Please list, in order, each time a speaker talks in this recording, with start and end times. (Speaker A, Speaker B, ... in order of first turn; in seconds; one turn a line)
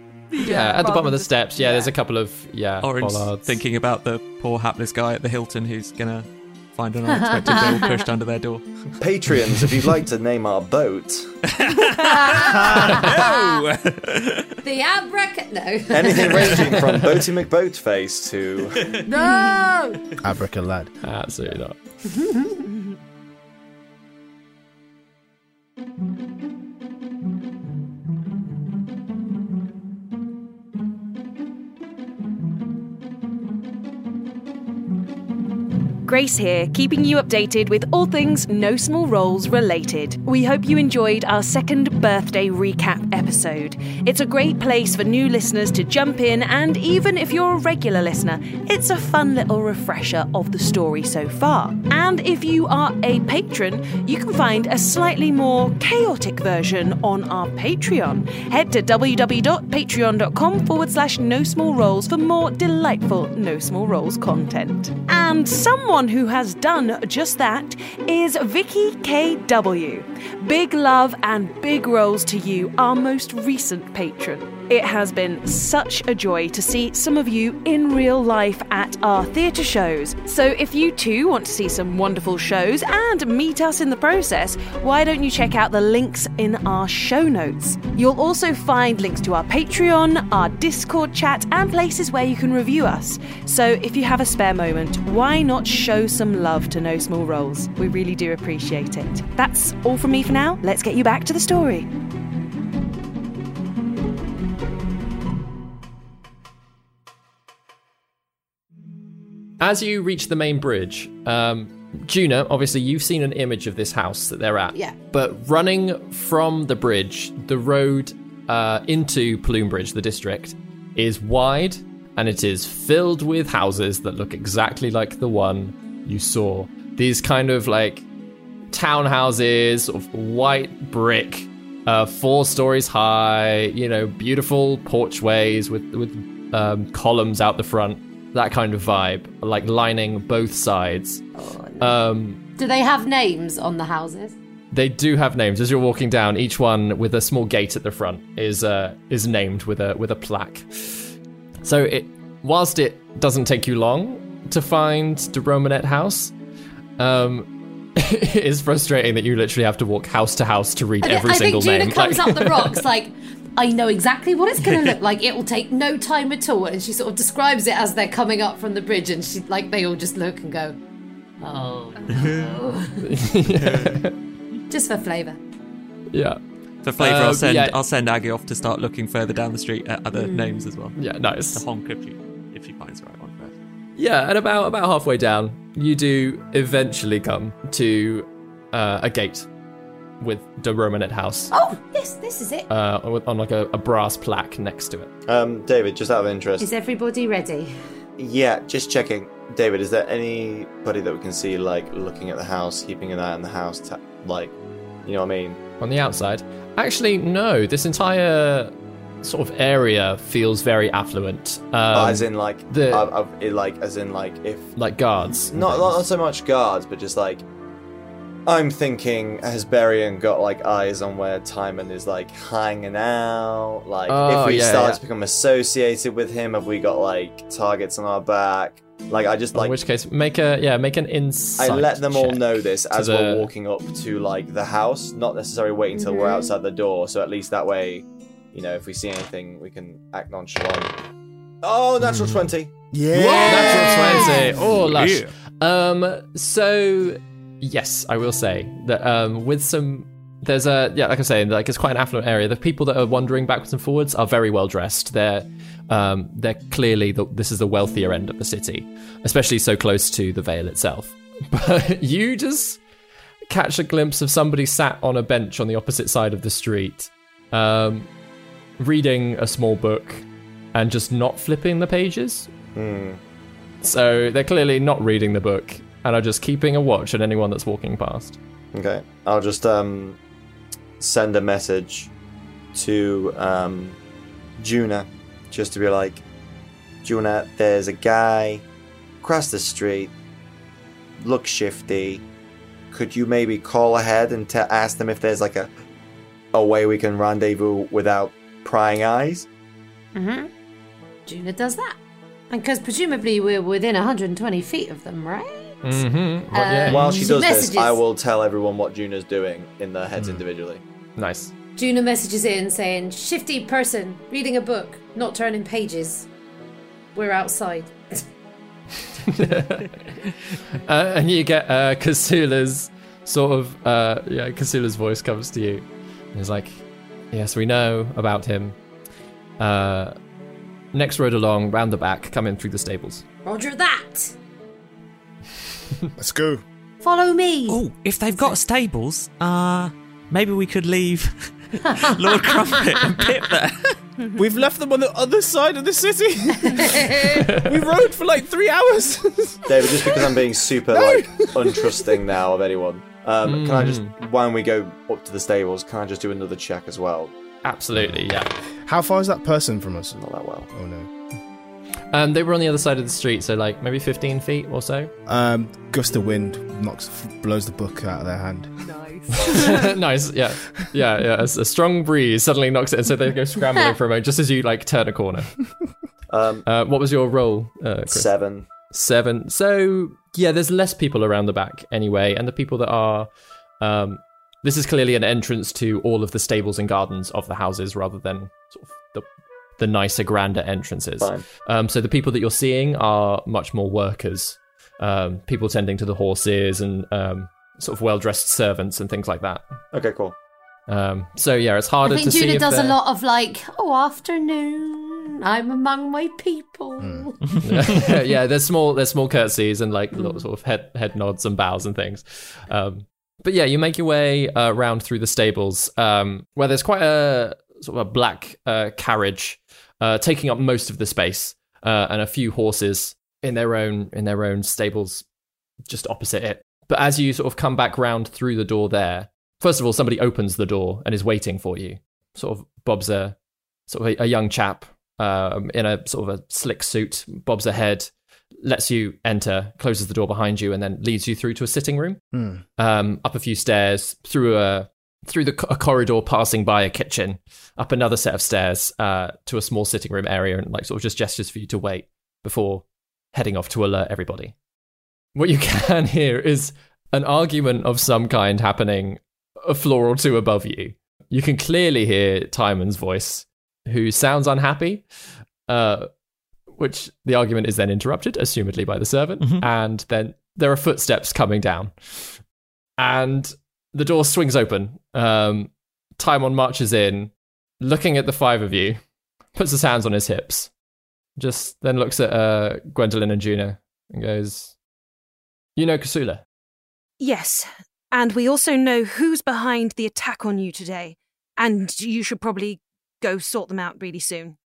Speaker A: 0.3-1.5
Speaker B: 0.4-3.6
Speaker C: 1.6-1.9
Speaker D: 2.8-8.7
Speaker C: 7.1-7.9
Speaker E: 9.0-11.3
Speaker D: 9.3-9.6
Speaker D: 11.5-14.6
Speaker C: 12.0-13.6
Speaker C: 14.6-17.0
Speaker E: 15.9-18.8
Speaker C: 19.1-20.0
Speaker A: 19.2-19.6
Speaker F: 20.2-20.9
Speaker B: 21.0-21.8
Speaker C: 22.1-22.6
Speaker A: 22.7-23.0
Speaker A: 36.0-101.9
Speaker B: 109.6-128.1
Speaker B: 128.7-141.2
Speaker C: 141.4-142.0
Speaker B: 141.8-142.4
Speaker C: 142.6-144.4
Speaker B: 144.7-151.1
Speaker B: 151.6-156.3
Speaker B: 157.0-162.8
Speaker C: 161.0-170.8
Speaker D: 164.6-164.9
Speaker C: 171.4-173.0
Speaker A: 172.0-172.3
Speaker D: 172.1-172.6
Speaker B: 173.0-174.1
Speaker D: 173.6-174.0
Speaker C: 174.7-175.4
Speaker B: 176.1-176.4
Speaker D: 176.8-181.0
Speaker B: 177.0-177.8
Speaker C: 180.1-180.6
Speaker B: 181.0-181.6
Speaker D: 181.5-183.6
Speaker B: 184.0-189.5
Speaker B: 190.2-191.5
Speaker C: 191.5-192.7
Speaker B: 192.7-195.1
Speaker E: 195.3-196.7
Speaker C: 196.6-197.7
Speaker E: 198.2-204.5
Speaker E: 205.1-205.6
Speaker B: 205.8-213.1
Speaker E: 211.9-214.7
Speaker B: 214.8-216.0
Speaker E: 215.5-217.4
Speaker E: 218.5-229.8
Speaker B: 224.1-225.0
Speaker B: 229.6-233.5
Speaker E: 231.6-240.9
Speaker C: 235.9-236.5
Speaker E: 241.6-242.7
Speaker F: 242.9-245.3
Speaker C: 243.3-244.6
Speaker B: 243.4-262.8
Speaker B: 263.5-268.1
Speaker B: 268.8-272.5
Speaker E: 272.8-273.2
Speaker B: 273.8-278.4
Speaker E: 278.7-280.2
Speaker E: 281.0-282.1
Speaker E: 282.7-284.0
Speaker E: 284.6-286.2
Speaker E: 287.0-288.6
Speaker E: 289.2-290.1
Speaker E: 291.2-292.2
Speaker E: 292.9-295.7
Speaker E: 296.5-299.5
Speaker C: 300.1-300.5
Speaker C: 301.3-302.0
Speaker C: 302.5-308.0
Speaker B: 305.8-307.2
Speaker E: 306.9-310.8
Speaker B: 311.2-311.5
Speaker C: 311.8-316.3
Speaker C: 317.1-317.9
Speaker B: 319.3-320.0
Speaker B: 320.8-328.8
Speaker B: 329.6-330.1
Speaker B: 330.9-333.2
Speaker C: 333.4-334.3
Speaker F: 336.2-336.6
Speaker C: 337.0-337.8
Speaker D: 337.7-344.0
Speaker A: 344.2-344.5
Speaker F: 344.4-350.4
Speaker C: 346.7-347.4
Speaker E: 349.7-357.3
Speaker F: 350.9-352.0
Speaker B: 353.4-354.1
Speaker B: 357.6-358.5
Speaker F: 358.9-361.1
Speaker E: 360.2-360.7
Speaker B: 362.1-365.1
Speaker F: 365.3-368.7
Speaker A: 368.8-369.9
Speaker B: 369.4-375.5
Speaker E: 376.3-376.6
Speaker B: 376.7-378.3
Speaker E: 378.1-378.7
Speaker B: 378.9-383.3
Speaker B: 383.8-389.3
Speaker B: 389.8-399.6
Speaker E: 399.9-400.4
Speaker B: 400.9-403.0
Speaker C: 402.1-407.4
Speaker F: 407.0-407.3
Speaker B: 407.6-425.2
Speaker C: 410.1-410.4
Speaker B: 425.9-433.4
Speaker B: 433.9-438.1
Speaker B: 438.6-442.2
Speaker F: 442.3-442.6
Speaker B: 442.8-454.6
Speaker B: 455.4-465.1
Speaker B: 465.7-466.1
Speaker B: 466.8-472.2
Speaker D: 469.4-469.7
Speaker B: 473.0-479.0
Speaker B: 479.6-480.7
Speaker B: 481.4-484.8
Speaker B: 485.8-486.4
Speaker A: 487.2-494.6